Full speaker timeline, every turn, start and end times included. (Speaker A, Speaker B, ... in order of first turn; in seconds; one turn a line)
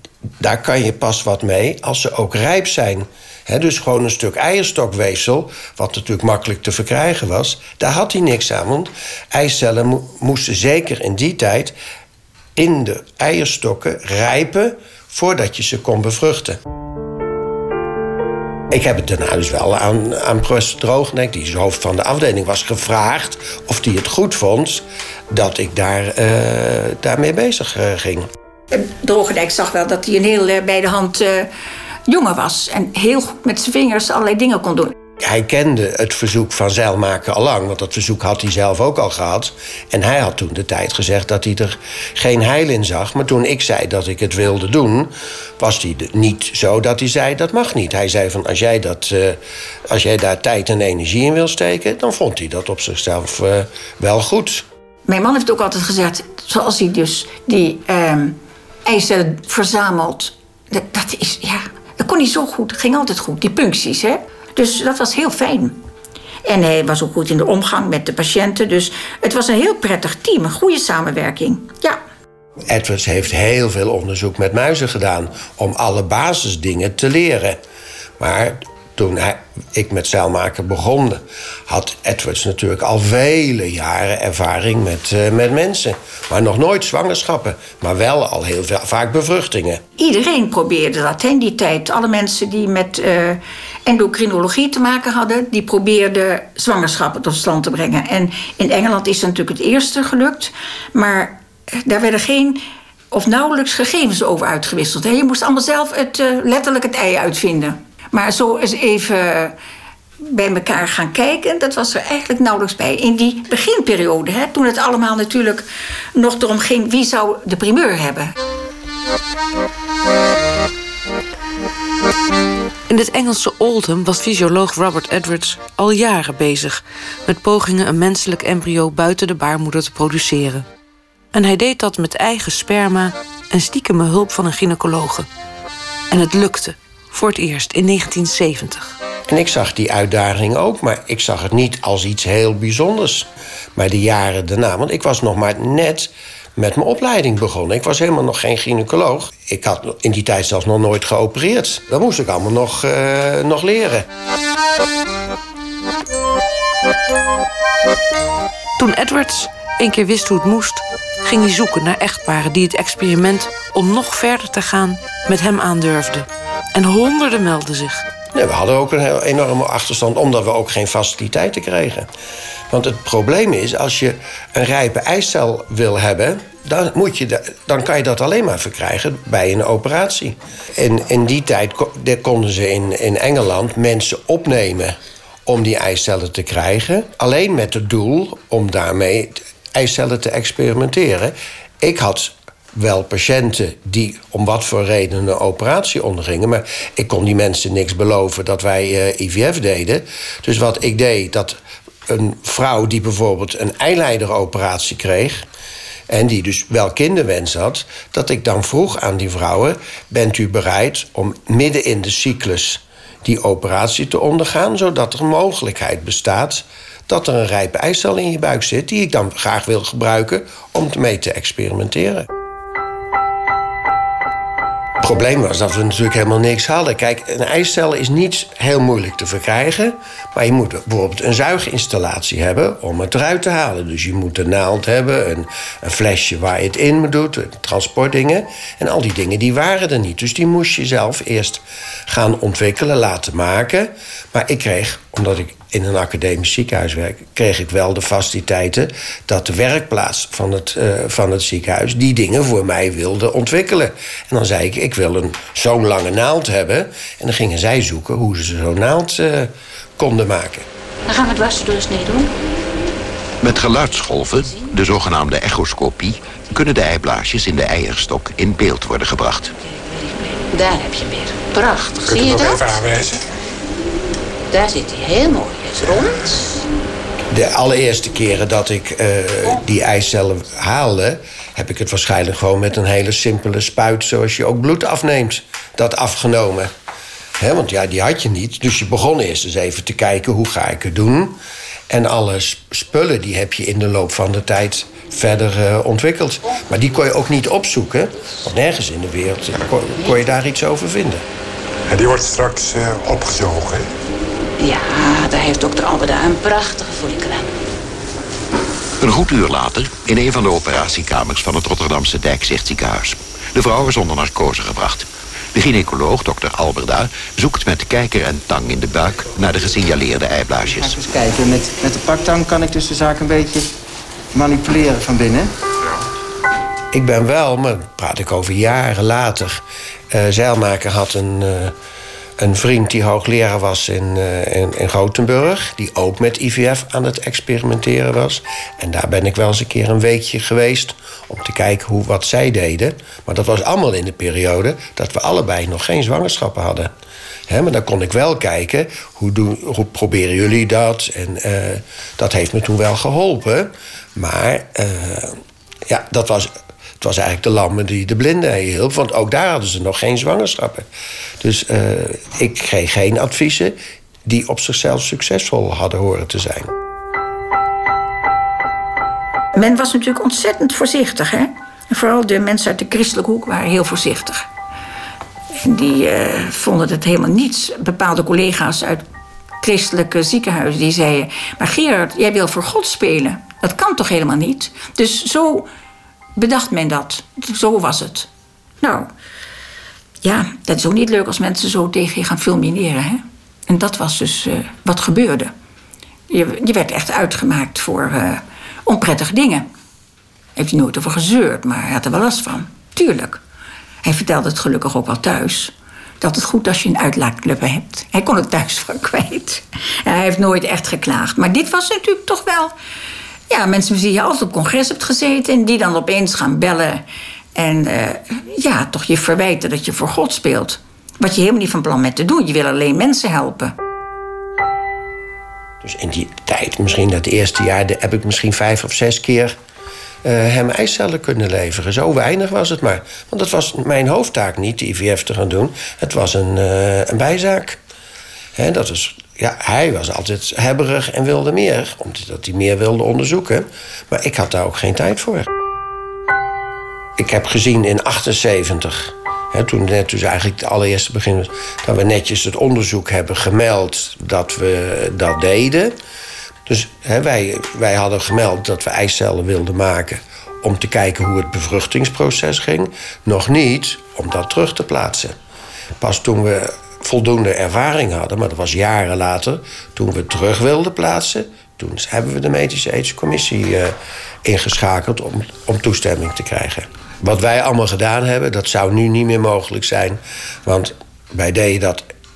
Speaker A: 0.4-11.8
Speaker A: 12.6-16.6
Speaker A: 18.7-28.3
Speaker B: 28.7-31.5
Speaker B: 32.1-35.0
Speaker A: 35.2-54.7
Speaker B: 55.1-65.8
Speaker B: 66.5-72.0
Speaker A: 72.7-77.6
Speaker A: 78.2-89.8
Speaker B: 90.0-109.5
Speaker B: 110.2-118.3
Speaker C: 122.9-130.7
Speaker C: 131.3-135.3
Speaker C: 136.1-138.9
Speaker A: 139.3-154.1
Speaker C: 158.8-168.1
Speaker A: 168.3-172.1
Speaker A: 172.7-201.6
Speaker A: 202.1-205.4
Speaker A: 206.1-222.3
Speaker A: 225.0-260.7
Speaker D: 261.1-262.3
Speaker E: 263.4-269.5
Speaker D: 269.7-273.0
Speaker F: 272.1-273.2
Speaker D: 274.5-276.6
Speaker A: 277.3-286.7
Speaker A: 287.4-301.2
Speaker F: 301.9-303.9
Speaker D: 304.6-307.5
Speaker E: 309.0-321.0
Speaker G: 320.6-323.7
Speaker G: 324.3-325.5
Speaker A: 326.9-331.8
Speaker A: 332.4-346.9
Speaker A: 347.5-360.9
Speaker A: 361.4-366.7
Speaker B: 369.5-374.5
Speaker B: 375.5-379.0
Speaker B: 379.6-385.7
Speaker B: 386.4-388.3
Speaker B: 388.8-389.1
Speaker B: 390.2-395.5
Speaker B: 396.3-399.7
Speaker B: 400.6-403.4
Speaker B: 404.0-412.7
Speaker B: 413.5-417.0
Speaker B: 417.6-423.7
Speaker A: 425.8-429.6
Speaker A: 430.2-437.8
Speaker A: 438.6-445.5
Speaker A: 447.2-455.9
Speaker A: 456.7-465.4
Speaker A: 466.0-482.1